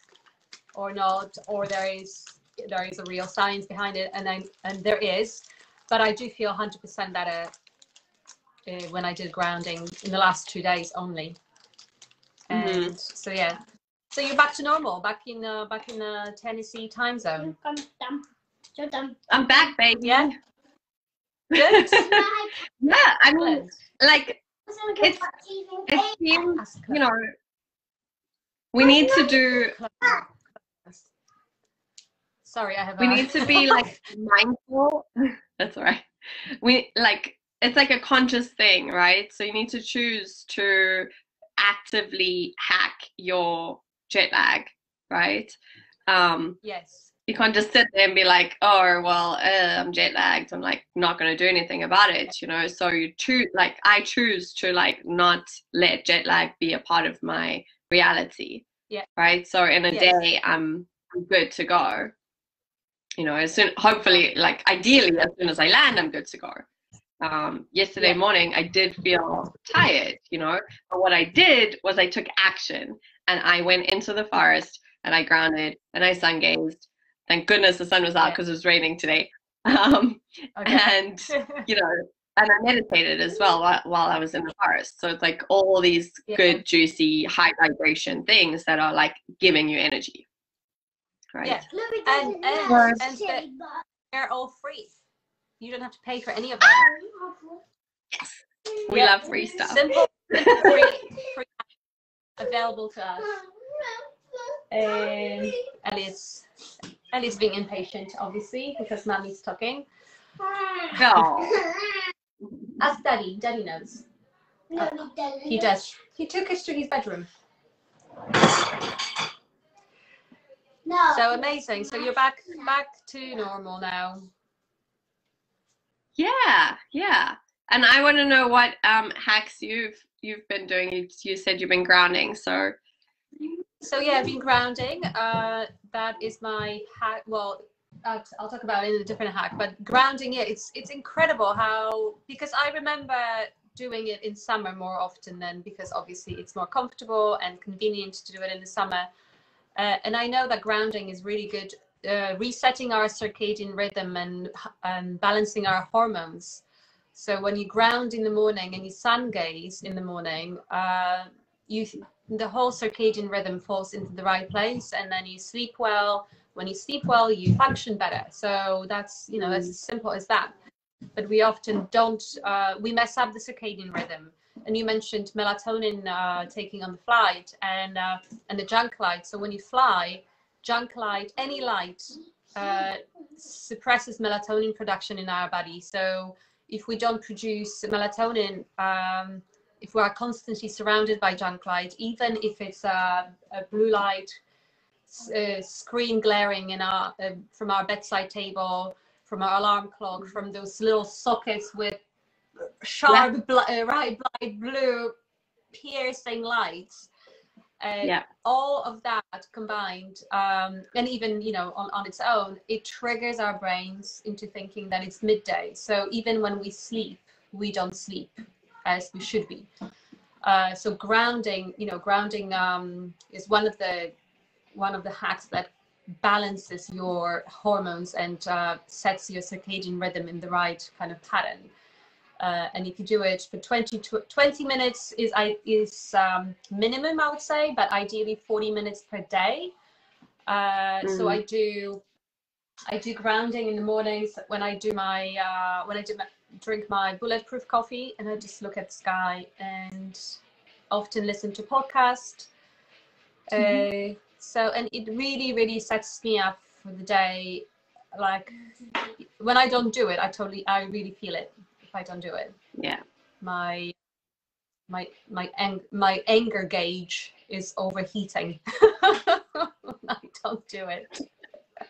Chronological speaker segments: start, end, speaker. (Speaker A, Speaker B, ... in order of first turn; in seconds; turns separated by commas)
Speaker A: 0.7-7.5, Speaker A: 8.7-11.4, Speaker A: 12.5-13.6, Speaker B: 12.5-12.9, Speaker A: 14.1-17.5, Speaker C: 17.4-19.7, Speaker B: 19.3-20.3, Speaker A: 20.0-20.3, Speaker B: 21.5-22.2, Speaker A: 21.6-22.3, Speaker C: 21.9-22.6, Speaker B: 22.8-24.4, Speaker A: 23.4-23.7, Speaker C: 24.7-26.6, Speaker B: 25.0-25.3, Speaker B: 25.9-27.3, Speaker A: 26.6-27.0, Speaker B: 28.7-29.8, Speaker C: 28.8-30.2, Speaker A: 29.8-30.3, Speaker A: 32.5-33.9, Speaker B: 33.0-36.1, Speaker B: 36.6-45.6, Speaker B: 46.1-46.6, Speaker A: 46.6-47.1, Speaker B: 47.3-58.7, Speaker B: 59.2-62.1, Speaker A: 59.9-60.2, Speaker B: 63.2-66.7, Speaker B: 67.2-90.2, Speaker A: 80.6-81.7, Speaker A: 86.3-86.6, Speaker B: 91.3-91.6, Speaker A: 91.4-93.5, Speaker C: 91.7-93.8, Speaker B: 92.7-93.0, Speaker A: 94.1-94.9, Speaker A: 95.6-96.9, Speaker C: 96.6-97.6, Speaker B: 98.2-100.8, Speaker A: 98.9-101.5, Speaker C: 99.2-100.0, Speaker C: 100.6-101.2, Speaker A: 102.4-103.3, Speaker C: 103.2-105.6, Speaker A: 104.7-106.5, Speaker A: 107.1-109.9, Speaker C: 110.4-112.1, Speaker B: 111.0-111.5, Speaker A: 112.8-114.1, Speaker C: 114.7-115.7, Speaker A: 114.8-117.3, Speaker C: 120.8-122.7, Speaker A: 121.1-124.3, Speaker B: 126.2-132.8, Speaker A: 133.8-149.1, Speaker A: 149.8-156.6, Speaker A: 157.2-170.5, Speaker B: 169.4-169.7, Speaker A: 171.2-194.4, Speaker A: 195.1-202.0, Speaker A: 202.8-205.2, Speaker A: 205.7-207.1, Speaker A: 207.8-219.7, Speaker A: 220.4-224.1, Speaker A: 224.8-225.7, Speaker A: 226.2-231.7, Speaker A: 232.4-239.7, Speaker A: 240.5-242.0, Speaker B: 241.0-241.4, Speaker A: 242.9-250.4, Speaker A: 250.9-252.5, Speaker A: 253.5-258.6, Speaker A: 259.2-262.6, Speaker B: 262.8-263.0, Speaker A: 263.4-263.9, Speaker A: 264.9-271.2